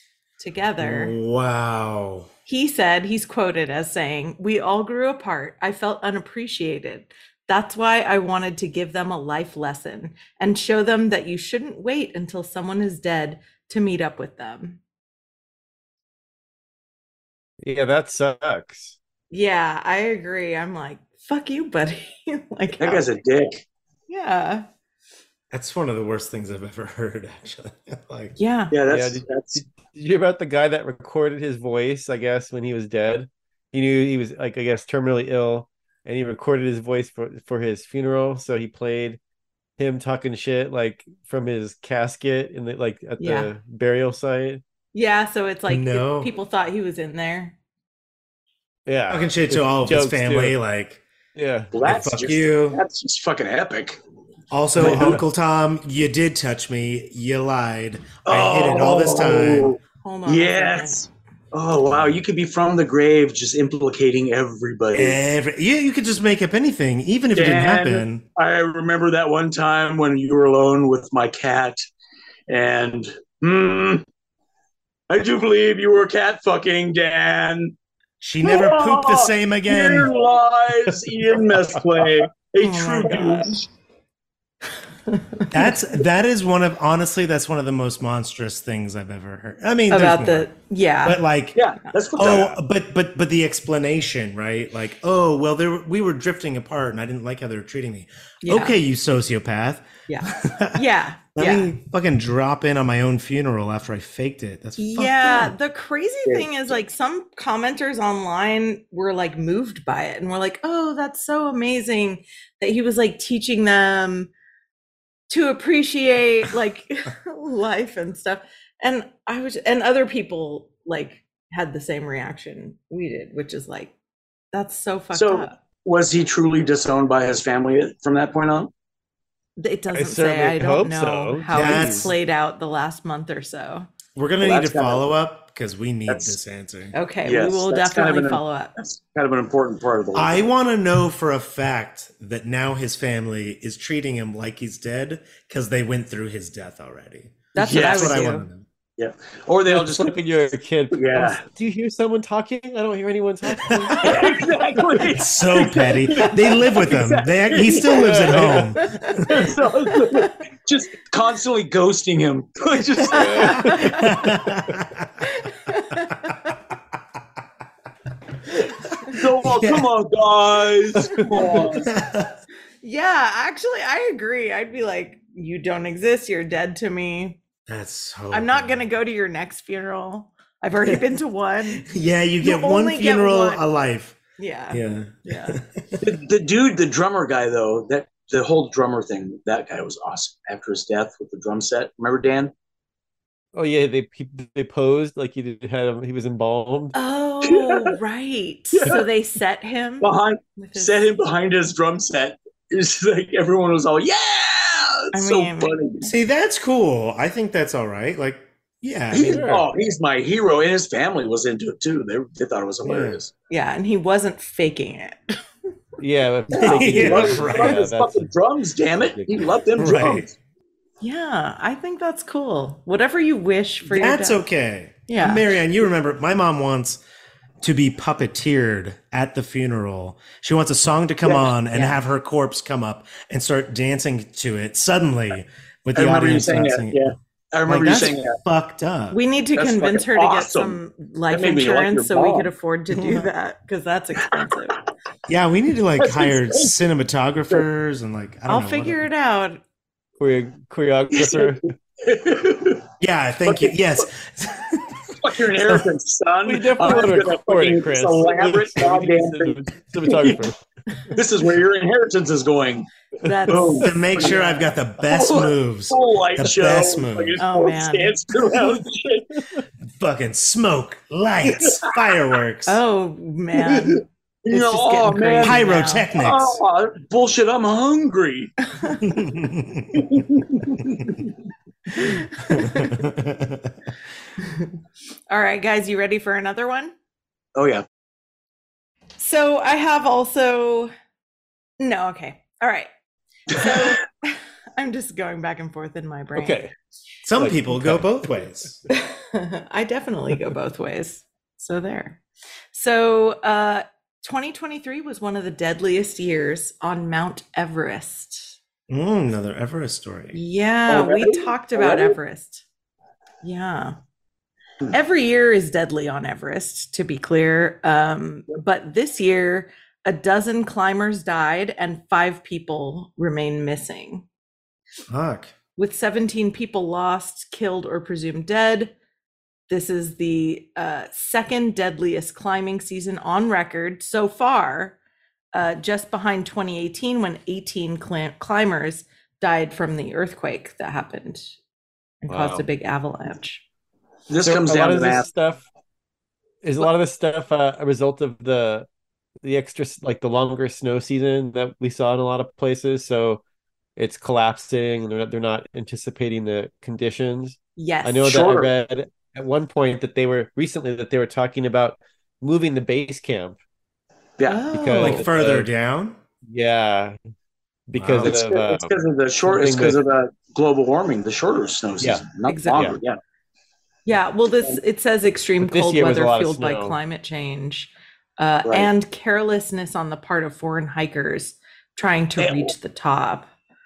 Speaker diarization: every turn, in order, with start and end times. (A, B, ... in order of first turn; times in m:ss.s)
0:00.4-0:01.2 A
0:00.8-0:02.3 B
0:02.5-0:14.8 A
0:17.6-0:19.0 C
0:19.3-0:23.1 A
0:22.8-0:23.6 D
0:24.1-0:24.6 A
0:25.5-0:28.4 B
0:28.4-0:28.7 A
0:28.7-0:29.6 D
0:28.9-0:39.2 C
0:39.8-0:44.6 C
0:43.2-0:43.5 A
0:44.9-0:47.6 A
0:45.7-0:46.3 B
0:48.9-0:50.6 C
0:49.1-0:51.0 B
0:51.3-0:51.7 C
0:51.7-0:54.0 D
0:51.8-0:52.8 B
0:54.5-0:59.8 B
0:54.8-0:55.2 D
0:54.8-0:55.2 C
0:58.2-1:05.2 D
1:00.0-1:01.1 A
1:04.9-1:08.2 B
1:07.3-1:11.8 D
1:12.5-1:14.0 D
1:15.1-1:17.7 D
1:18.2-1:20.1 B
1:18.4-1:23.7 D
1:22.6-1:23.5 A
1:25.1-1:25.5 A
1:25.5-1:30.5 B
1:29.9-1:31.2 A
1:31.0-1:31.6 B
1:31.5-1:32.5 D
1:32.2-1:40.8 B
1:32.2-1:32.6 C
1:38.4-1:38.8 A
1:40.1-1:41.7 A
1:41.4-1:45.5 B
1:44.8-1:54.3 A
1:46.2-1:46.8 D
1:55.3-2:03.9 A
2:04.5-2:05.6 A
2:05.1-2:08.7 D
2:09.6-2:13.9 A
2:09.9-2:12.0 C
2:11.5-2:12.1 B
2:14.1-2:16.9 B
2:14.4-2:15.0 D
2:16.1-2:16.4 D
2:16.9-2:18.7 A
2:17.2-2:20.4 D
2:20.1-2:28.6 B
2:27.5-2:28.5 A
2:27.6-2:28.3 D
2:29.0-2:30.2 D
2:29.6-2:34.4 C
2:30.9-2:31.4 D
2:33.6-2:34.2 B
2:34.0-2:38.6 D
2:35.0-2:39.5 B
2:37.8-2:38.7 C
2:38.8-2:40.2 A
2:39.2-2:43.9 D
2:43.1-2:43.7 C
2:43.1-2:44.3 A
2:43.6-2:45.1 B
2:45.2-2:46.5 A
2:49.1-2:49.9 B
2:49.1-2:51.9 D
2:51.3-2:51.6 A
2:51.5-2:52.3 B
2:52.8-2:57.4 A
2:57.7-2:58.9 B
2:58.3-3:01.9 A
3:01.8-3:04.2 B
3:02.4-3:03.6 A
3:04.4-3:05.6 A
3:04.7-3:06.0 B
3:06.0-3:12.5 D
3:13.5-3:16.9 C
3:16.9-3:20.9 A
3:17.4-3:18.0 D
3:18.7-3:19.0 D
3:20.0-3:26.1 D
3:25.1-3:25.7 A
3:26.0-3:29.6 B
3:29.1-3:33.3 D
3:29.3-3:29.6 C
3:32.8-3:33.2 B
3:33.5-3:35.4 A
3:36.0-3:38.3 C
3:36.5-3:40.3 D
3:36.6-3:37.8 B
3:39.0-3:39.6 C
3:39.8-3:40.3 B
3:41.0-3:44.4 A
3:43.9-3:47.0 B
3:45.1-3:45.5 A
3:47.6-3:57.0 B
3:51.2-3:51.5 D
3:51.7-3:52.0 A
3:55.9-3:58.4 D
3:57.6-3:59.2 B
3:59.1-4:04.8 A
3:59.6-4:00.8 D
4:01.3-4:02.5 D
4:02.9-4:03.3 B
4:05.3-4:09.0 B
4:06.0-4:06.7 D
4:08.5-4:09.6 A
4:10.2-4:11.7 C
4:11.1-4:12.8 D
4:13.0-4:15.8 B
4:13.4-4:13.7 D
4:15.2-4:20.4 D
4:16.4-4:20.6 C
4:21.1-4:22.9 D
4:23.2-4:24.8 A
4:23.5-4:24.4 D
4:23.8-4:27.4 B
4:25.0-4:29.4 D
4:27.4-4:28.2 A
4:30.0-4:32.8 B
4:31.6-4:31.9 D
4:32.6-4:36.1 A
4:33.7-4:38.6 D
4:35.4-4:36.6 B
4:38.7-4:39.0 A
4:39.0-4:40.2 B
4:39.9-4:41.3 D
4:42.0-4:43.0 A
4:42.0-4:43.9 B
4:44.4-4:44.7 A
4:45.3-4:46.9 A
4:47.5-4:47.8 D
4:49.2-4:50.9 A
4:51.8-4:52.9 A
4:53.5-4:56.6 A
4:56.3-4:56.7 C
4:57.2-4:58.8 B
4:57.4-4:58.5 C
4:58.9-5:08.6 A
5:08.9-5:10.4 B
5:10.3-5:12.6 A
5:10.9-5:12.2 D
5:13.4-5:14.0 A
5:14.9-5:24.3 A
5:25.1-5:25.5 B
5:25.8-5:28.9 A
5:29.7-5:35.0 A
5:35.5-5:41.5 A
5:42.2-5:43.6 A
5:42.3-5:42.6 C
5:44.3-5:45.3 D
5:44.4-5:45.7 C
5:46.6-5:48.9 C
5:49.4-5:53.4 C
5:54.0-6:03.6 C
5:57.8-5:58.4 A
5:58.2-5:58.7 D
6:04.4-6:04.6 D
6:04.5-6:05.2 A
6:04.7-6:05.7 C
6:05.0-6:06.2 B
6:06.5-6:07.2 C
6:07.9-6:09.0 C
6:08.0-6:08.4 B
6:08.2-6:13.2 D
6:09.5-6:10.0 C
6:12.5-6:13.0 A
6:14.0-6:23.5 A
6:15.6-6:17.0 C
6:18.6-6:18.9 D
6:22.4-6:22.7 D